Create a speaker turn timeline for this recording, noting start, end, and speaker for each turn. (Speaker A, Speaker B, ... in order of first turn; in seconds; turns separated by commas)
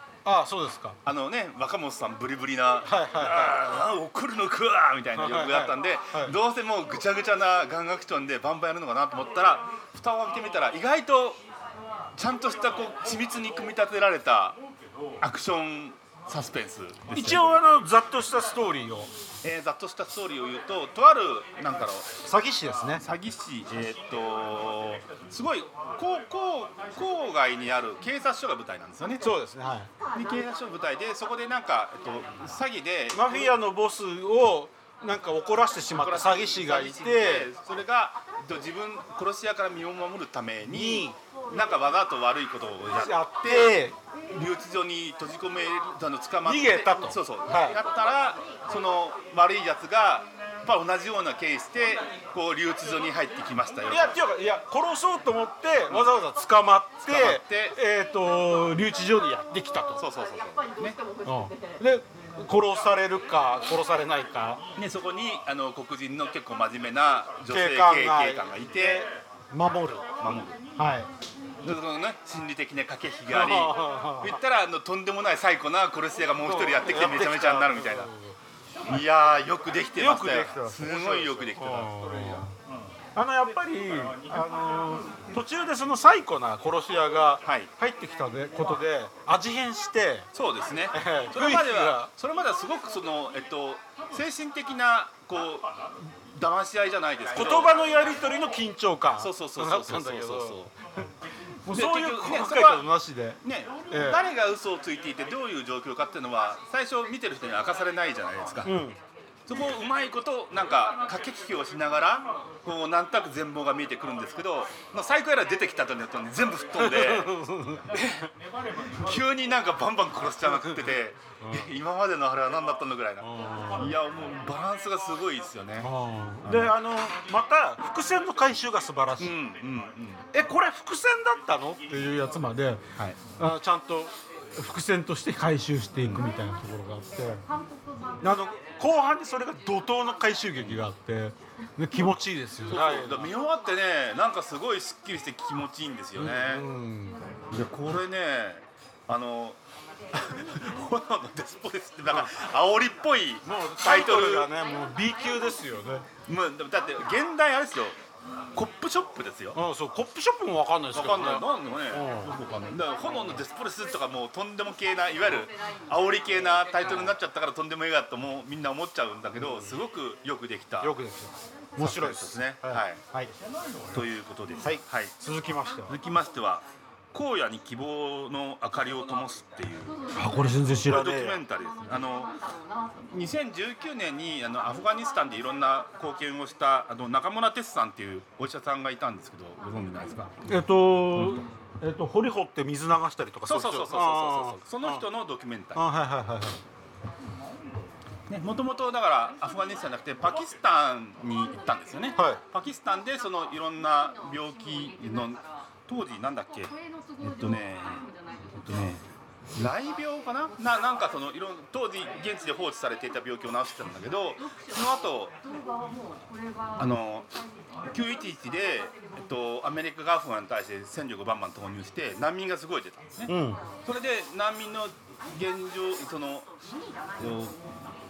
Speaker A: 0.2-1.0, Speaker B: 1.0-11.4, Speaker A: 2.9-3.6, Speaker A: 5.2-6.4, Speaker B: 12.2-14.6, Speaker B: 15.2-17.5, Speaker A: 17.1-19.1, Speaker B: 19.4-22.1, Speaker A: 22.2-23.0, Speaker B: 23.0-29.2, Speaker A: 29.2-29.9, Speaker B: 30.1-33.5, Speaker A: 33.1-37.5, Speaker B: 36.0-43.8, Speaker A: 40.7-41.2, Speaker A: 43.0-44.0, Speaker B: 44.3-54.2, Speaker A: 46.4-47.8, Speaker A: 53.9-60.0, Speaker B: 57.1-57.8, Speaker B: 60.0-61.0, Speaker A: 61.2-64.6, Speaker B: 64.8-69.1, Speaker A: 67.5-70.2, Speaker B: 70.2-70.6, Speaker A: 70.8-71.1, Speaker B: 71.6-78.1, Speaker A: 73.3-74.4, Speaker A: 76.4-78.4, Speaker B: 78.9-81.9, Speaker A: 80.0-82.5, Speaker A: 83.2-90.3, Speaker B: 87.4-87.7, Speaker B: 90.3-95.7, Speaker A: 90.9-92.1, Speaker B: 96.3-97.8, Speaker A: 97.4-100.7, Speaker B: 99.2-100.7, Speaker A: 101.7-104.2, Speaker B: 101.7-102.9, Speaker B: 103.4-108.7, Speaker A: 108.7-109.0, Speaker B: 109.5-117.4, Speaker A: 116.8-118.1, Speaker B: 117.9-118.3, Speaker B: 118.9-125.9, Speaker A: 120.5-120.9, Speaker A: 121.4-121.8, Speaker A: 123.2-124.0, Speaker A: 125.8-129.3, Speaker B: 126.4-126.7, Speaker B: 129.2-130.2, Speaker A: 130.3-137.4, Speaker A: 138.2-143.3, Speaker B: 142.7-146.7, Speaker A: 146.2-147.2, Speaker B: 147.5-149.6, Speaker B: 150.1-154.5, Speaker A: 153.4-156.1, Speaker B: 156.3-158.0, Speaker B: 158.5-159.6, Speaker A: 159.5-162.4, Speaker B: 160.9-171.0, Speaker A: 163.1-163.4, Speaker A: 169.4-169.7, Speaker A: 170.8-173.3, Speaker B: 171.8-173.0, Speaker B: 173.9-175.1, Speaker A: 174.6-176.0, Speaker B: 175.9-180.0, Speaker A: 180.1-181.4, Speaker B: 180.8-182.4, Speaker B: 183.1-190.6, Speaker A: 190.5-195.0, Speaker B: 191.2-191.4, Speaker B: 193.5-195.8, Speaker A: 195.8-196.6, Speaker B: 198.3-209.0, Speaker B: 209.5-215.3, Speaker B: 216.8-217.3, Speaker B: 217.9-223.3, Speaker A: 223.3-223.6, Speaker B: 223.8-226.5, Speaker B: 227.2-227.6